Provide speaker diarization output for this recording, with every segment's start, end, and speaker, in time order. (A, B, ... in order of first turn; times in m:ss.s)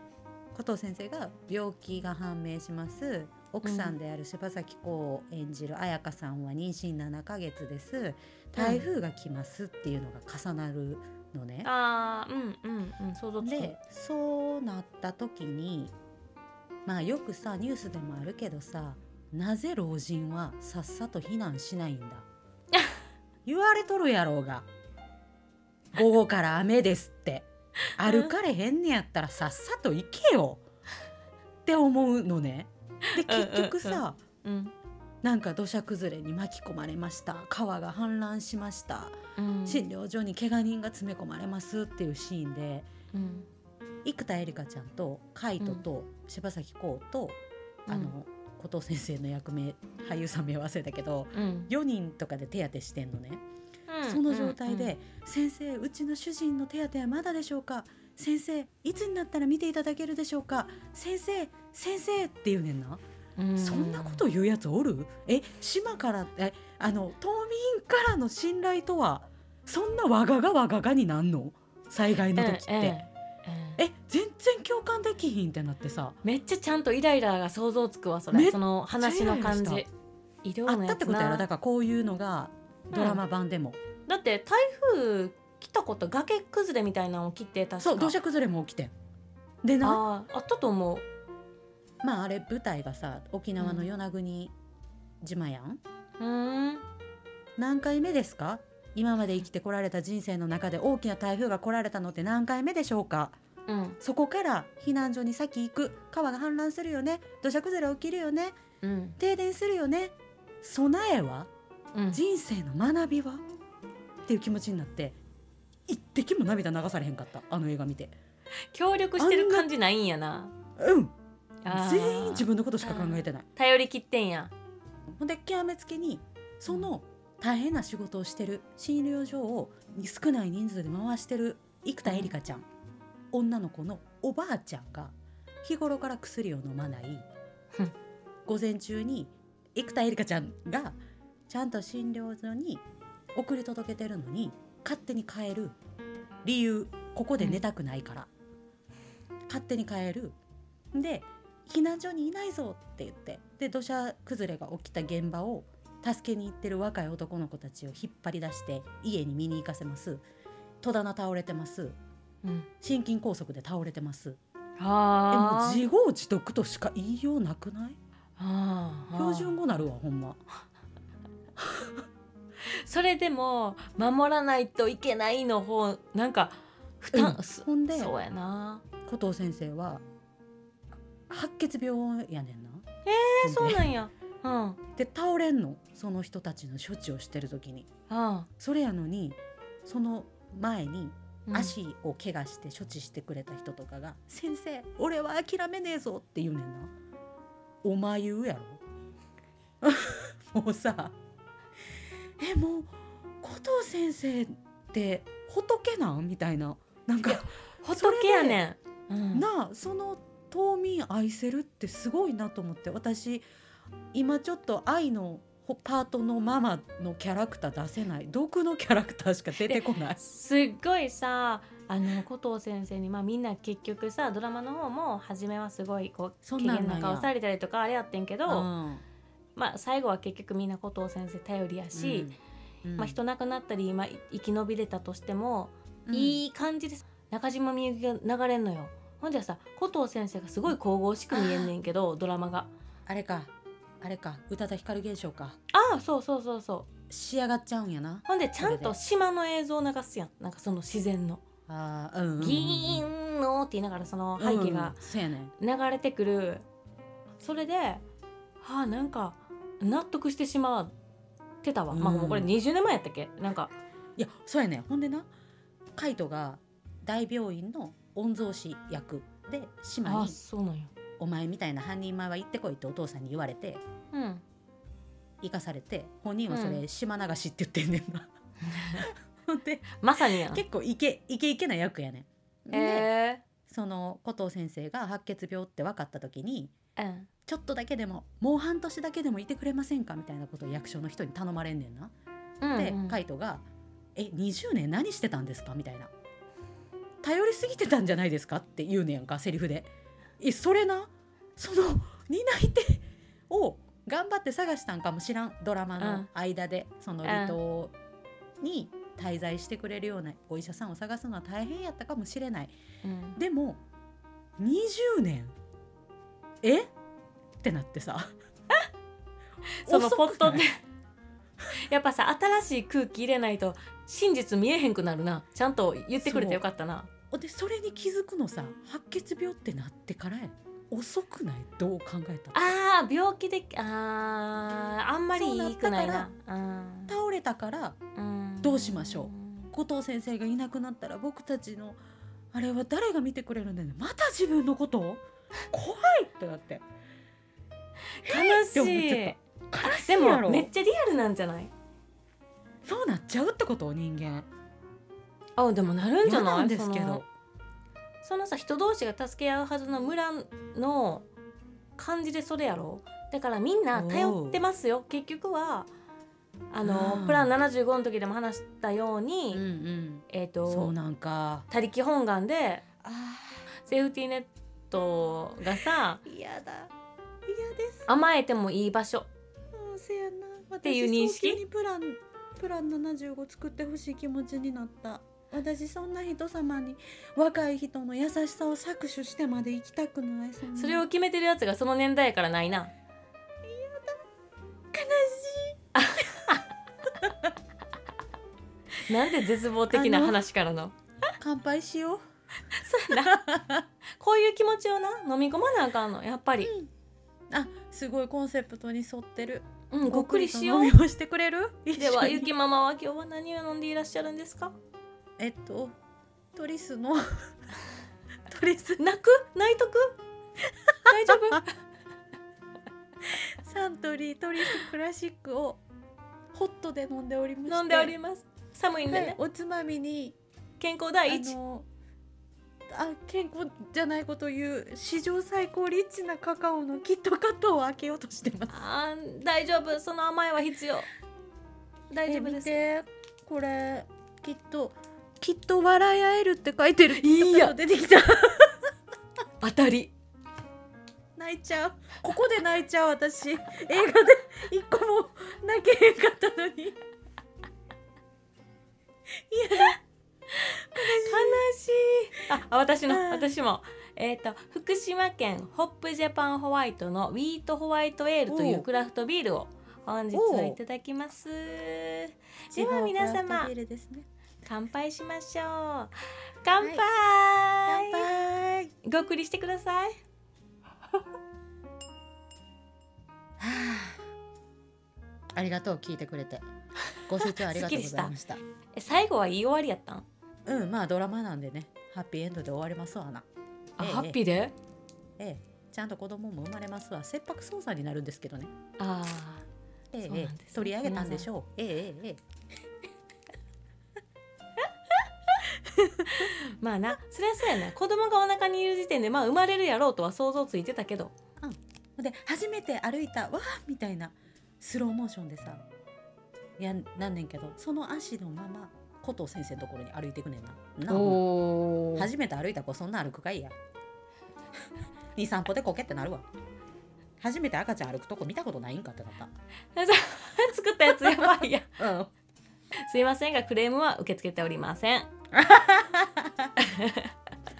0:00.5-0:11.7 A
0:03.6-0:03.9 B
0:08.6-0:08.9 B
0:11.6-0:13.8 B
0:13.4-0:15.9 A
0:16.8-0:22.2 A
0:23.4-0:24.7 A
0:25.9-0:30.6 A
0:27.9-0:28.3 B
0:31.6-0:34.2 A
0:33.1-0:34.7 B
0:35.2-0:42.9 A
0:39.4-0:39.9 B
0:43.1-0:43.5 B
0:44.0-0:53.4 A
0:47.9-0:48.1 B
0:51.3-0:51.7 B
0:53.9-0:54.9 B
0:54.0-1:03.0 A
1:03.4-1:04.2 B
1:03.6-1:13.0 A
1:12.3-1:13.8 B
1:13.8-1:16.2 A
1:16.2-1:19.9 B
1:18.3-1:19.8 A
1:20.4-1:21.4 B
1:20.6-1:23.8 A
1:22.9-1:23.2 B
1:24.1-1:28.2 B
1:27.8-1:28.9 A
1:29.6-1:30.0 A
1:29.8-1:31.0 B
1:32.0-1:34.5 A
1:33.6-1:33.9 B
1:35.2-1:35.8 A
1:36.2-1:36.8 B
1:37.6-1:43.4 A
1:43.7-1:44.0 B
1:44.0-1:48.6 A
1:48.8-1:49.2 B
1:49.2-1:51.5 A
1:51.9-1:52.2 B
1:52.1-1:53.4 A
1:54.2-1:55.2 A
1:55.9-1:58.1 A
1:58.7-2:00.5 B
1:59.2-1:59.7 A
2:00.8-2:01.1 A
2:01.6-2:04.5 B
2:01.7-2:03.4 A
2:05.1-2:12.7 A
2:12.0-2:12.3 B
2:13.3-2:17.2 A
2:18.4-2:21.0 A
2:21.5-2:25.8 A
2:26.4-2:28.3 A
2:29.5-2:30.4 A
2:30.9-2:40.2 A
2:40.8-2:42.0 A
2:42.8-2:44.4 A
2:44.8-2:45.8 B
2:45.3-2:48.0 A
2:48.4-2:49.6 B
2:49.1-2:50.4 A
2:51.6-2:52.0 A
2:52.6-2:58.8 B
2:57.1-2:58.1 A
2:59.0-3:00.0 A
3:01.3-3:02.8 A
3:03.0-3:04.8 B
3:03.4-3:03.9 A
3:05.0-3:07.9 A
3:08.1-3:08.5 B
3:08.6-3:16.9 A
3:11.5-3:11.7 B
3:17.8-3:18.8 A
3:19.8-3:21.2 A
3:22.4-3:28.6 A
3:27.2-3:29.5 B
3:29.3-3:33.4 A
3:34.1-3:40.2 A
3:39.6-3:48.7 B
3:46.4-3:47.3 A
3:48.5-3:49.0 A
3:49.6-3:52.3 B
3:51.9-3:53.2 A
3:53.0-4:02.7 B
3:56.0-3:56.4 A
4:01.3-4:01.7 A
4:03.0-4:05.6 A
4:05.7-4:06.9 B
4:07.1-4:09.0 A
4:08.3-4:11.4 B
4:11.7-4:13.0 A
4:12.4-4:15.0 B
4:14.4-4:15.5 A
4:15.6-4:16.6 B
4:17.4-4:18.0 B
4:18.6-4:20.9 B
4:21.6-4:23.7 B
4:21.9-4:22.5 A
4:24.2-4:25.3 A
4:26.0-4:30.4 A
4:30.0-4:30.9 B
4:31.2-4:33.8 A
4:34.1-4:34.4 B
4:35.4-4:38.3 A
4:36.5-4:36.8 B
4:38.6-4:39.1 B
4:38.9-4:43.1 A
4:40.0-4:40.6 B
4:42.7-4:43.4 B
4:43.7-4:46.7 A
4:47.0-4:47.3 B
4:47.4-4:52.1 A
4:52.6-4:53.2 B
4:52.8-4:53.6 A
4:54.2-4:56.1 A
4:57.2-5:07.9 A
5:06.0-5:06.3 B
5:07.2-5:07.6 B
5:08.6-5:12.7 A
5:13.0-5:13.4 B
5:13.4-5:13.8 A
5:14.6-5:15.5 A
5:16.6-5:16.9 A
5:17.6-5:18.3 A
5:19.8-5:20.8 B
5:19.8-5:20.6 A
5:21.7-5:27.1 B
5:26.2-5:26.6 A
5:27.3-5:32.6 A
5:32.5-5:37.1 B
5:35.3-5:36.3 A
5:37.1-5:38.0 A
5:38.2-5:39.7 B
5:38.6-5:42.0 A
5:42.5-5:46.8 A
5:48.2-5:51.7 B
5:48.2-5:50.7 A
5:52.8-5:54.5 A
5:55.6-5:57.2 B
5:56.2-5:57.3 A
5:58.2-6:01.2 B
6:02.0-6:05.9 B
6:03.9-6:04.6 A
6:06.7-6:09.6 B
6:06.8-6:07.5 A
6:09.5-6:11.7 A
6:10.3-6:10.9 B
6:11.7-6:12.8 B
6:13.0-6:13.6 A
6:13.8-6:16.2 B
6:16.2-6:16.9 A
6:17.4-6:18.1 A
6:18.1-6:19.3 B
6:19.7-6:31.0 A
6:20.8-6:21.6 B
6:30.7-6:32.9 B
6:33.6-6:34.2 A
6:34.9-6:35.8 A
6:35.9-6:36.6 B
6:37.2-6:37.5 A
6:39.0-6:40.9 B
6:39.9-6:40.4 A
6:41.4-6:42.2 A
6:42.7-6:43.4 B
6:43.1-6:43.8 A
6:44.2-6:46.7 B
6:46.6-6:46.9 A
6:47.5-6:52.5 A
6:49.9-6:51.0 B
6:52.0-6:54.8 B
6:55.4-6:55.9 A
6:56.5-6:57.5 A
6:58.5-6:59.0 A
6:59.0-7:00.2 B
7:00.9-7:01.6 A
7:01.0-7:01.7 B
7:03.2-7:05.8 A
7:06.5-7:08.1 A
7:07.7-7:09.4 B
7:09.1-7:10.4 A
7:10.8-7:11.6 B
7:11.3-7:11.9 A
7:12.9-7:18.8 A
7:18.7-7:21.1 B
7:22.1-7:22.7 B
7:22.3-7:28.9 A
7:27.1-7:27.7 B
7:29.6-7:30.1 B
7:31.4-7:37.0 A
7:39.3-7:40.0 A
7:40.6-7:53.7 B
7:40.8-7:41.6 A
7:43.1-7:43.5 A
7:48.5-7:48.8 A
7:50.3-7:50.8 A
7:52.7-7:54.3 A
7:54.6-7:58.2 B
7:57.8-7:58.9 A
7:59.0-8:00.2 B
8:03.6-8:04.2 A
8:05.5-8:06.6 A
8:07.3-8:08.6 A
8:07.4-8:08.3 B
8:08.9-8:10.2 B
8:10.6-8:13.4 A
8:14.0-8:14.7 B
8:14.0-8:14.4 A
8:15.4-8:18.7 A
8:19.0-8:19.6 B
8:20.1-8:22.4 A
8:20.3-8:21.5 B
8:26.0-8:26.4 A
8:26.2-8:31.3 B
8:31.6-8:35.8 A
8:36.8-8:41.4 A
8:41.1-8:42.3 B
8:42.1-8:43.7 A
8:45.3-8:46.4 A
8:47.4-8:49.5 A
8:49.9-8:52.0 B
8:51.1-8:52.3 A
8:53.0-8:55.3 B
8:55.5-8:56.7 A
8:56.8-8:57.3 B